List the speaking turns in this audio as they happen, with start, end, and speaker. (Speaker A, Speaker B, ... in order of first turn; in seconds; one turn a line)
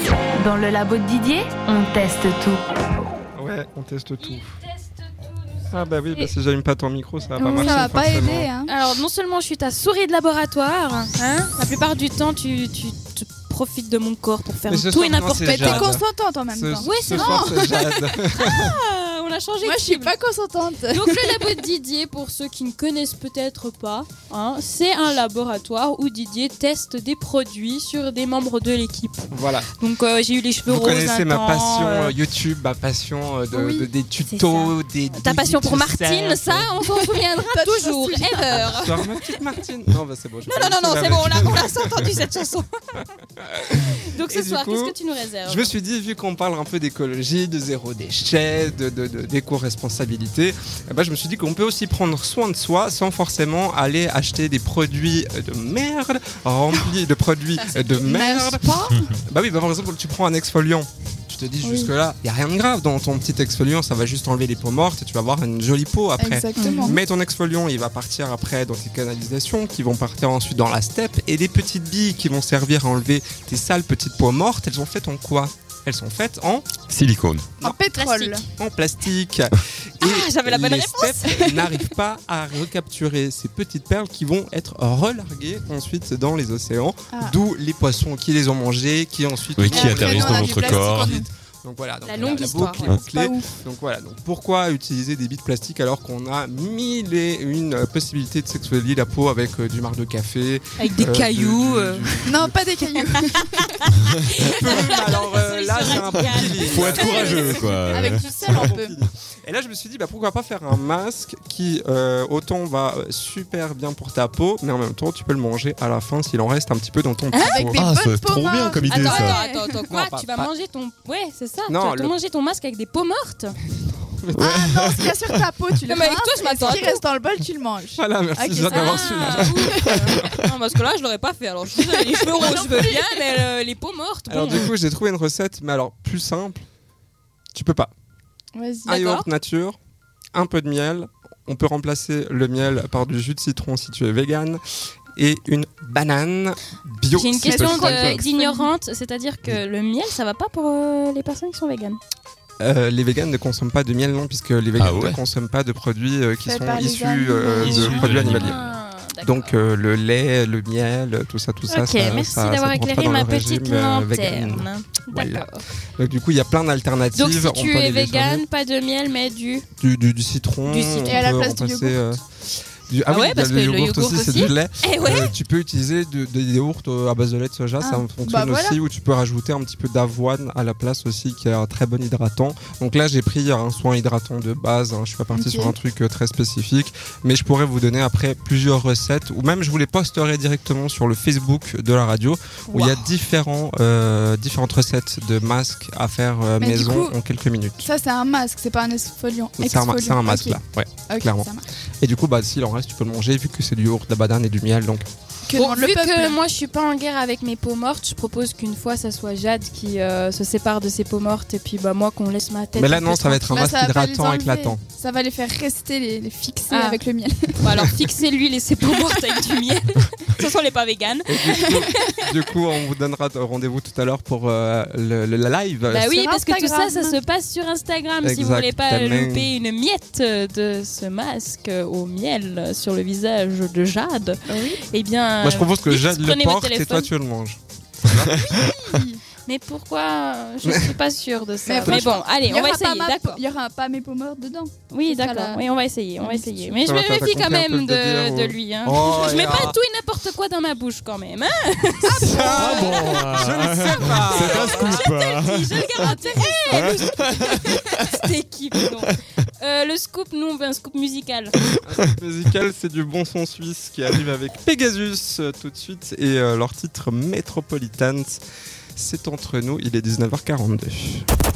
Speaker A: 0.4-2.6
Speaker B: 3.4-4.5
Speaker C: 4.2-6.3
Speaker B: 5.7-8.5
Speaker C: 7.3-15.9
Speaker D: 7.5-8.7
Speaker B: 14.7-18.8
Speaker D: 15.4-17.8
Speaker C: 16.8-20.1
Speaker D: 19.6-21.5
Speaker C: 20.9-32.2
Speaker B: 29.3-29.7
Speaker B: 30.7-36.7
Speaker D: 33.5-33.9
Speaker C: 34.3-39.2
Speaker D: 36.8-38.5
Speaker B: 38.5-42.1
Speaker C: 40.5-43.0
Speaker B: 43.4-76.7
Speaker C: 43.7-45.8
Speaker D: 57.9-59.1
Speaker D: 61.6-61.9
Speaker D: 66.2-67.0
Speaker C: 66.6-67.0
Speaker E: 76.9-77.5
Speaker D: 77.6-78.4
Speaker C: 78.0-78.4
Speaker B: 78.6-102.8
Speaker C: 80.0-81.5
Speaker D: 87.1-87.4
Speaker E: 89.6-91.1
Speaker D: 89.7-91.3
Speaker C: 92.0-92.9
Speaker D: 93.0-93.5
Speaker C: 100.8-102.1
Speaker D: 102.2-103.7
Speaker C: 103.2-107.7
Speaker B: 104.5-117.8
Speaker E: 106.6-108.7
Speaker D: 107.1-109.0
Speaker C: 117.3-117.7
Speaker D: 117.4-119.8
Speaker E: 117.7-119.4
Speaker C: 118.8-123.6
Speaker B: 119.9-120.5
Speaker B: 121.7-122.1
Speaker B: 124.2-125.1
Speaker D: 124.3-130.2
Speaker C: 125.9-127.0
Speaker B: 128.0-130.3
Speaker C: 128.6-134.7
Speaker D: 132.3-132.9
Speaker B: 134.3-136.7
Speaker B: 137.5-137.9
Speaker D: 138.6-138.9
Speaker C: 138.9-139.3
Speaker B: 138.9-139.8
Speaker B: 140.3-144.6
Speaker B: 145.2-148.2
Speaker C: 147.1-152.0
Speaker D: 147.5-148.7
Speaker B: 152.6-168.4
Speaker E: 154.8-155.2
Speaker D: 156.4-158.1
Speaker E: 157.6-158.5
Speaker C: 157.7-159.6
Speaker C: 161.7-165.7
Speaker C: 167.1-169.7
Speaker B: 169.8-172.2
Speaker C: 170.7-171.3
Speaker D: 171.1-172.0
Speaker B: 172.9-197.9
Speaker C: 173.1-175.3
Speaker D: 177.8-178.8
Speaker D: 185.3-185.7
Speaker C: 192.7-193.1
Speaker D: 196.6-197.2
Speaker D: 197.8-201.7
Speaker B: 199.6-205.1
Speaker D: 205.5-206.4
Speaker C: 205.5-213.7
Speaker B: 212.8-214.8
Speaker D: 213.5-217.7
Speaker C: 216.7-217.0
Speaker C: 217.6-221.8
Speaker B: 221.3-226.2
Speaker D: 221.7-222.2
Speaker C: 225.9-237.1
Speaker D: 226.2-227.2
Speaker B: 228.2-229.5
Speaker D: 234.5-234.8
Speaker B: 235.4-238.6
Speaker D: 238.2-239.2
Speaker C: 239.4-243.4
Speaker B: 240.6-240.9
Speaker D: 241.7-246.8
Speaker B: 241.8-242.2
Speaker C: 244.9-261.6
Speaker B: 246.8-249.8
Speaker D: 252.0-253.4
Speaker B: 252.5-255.1
Speaker E: 252.5-256.1
Speaker D: 256.0-257.0
Speaker E: 256.7-257.6
Speaker B: 261.8-268.4
Speaker B: 269.0-271.3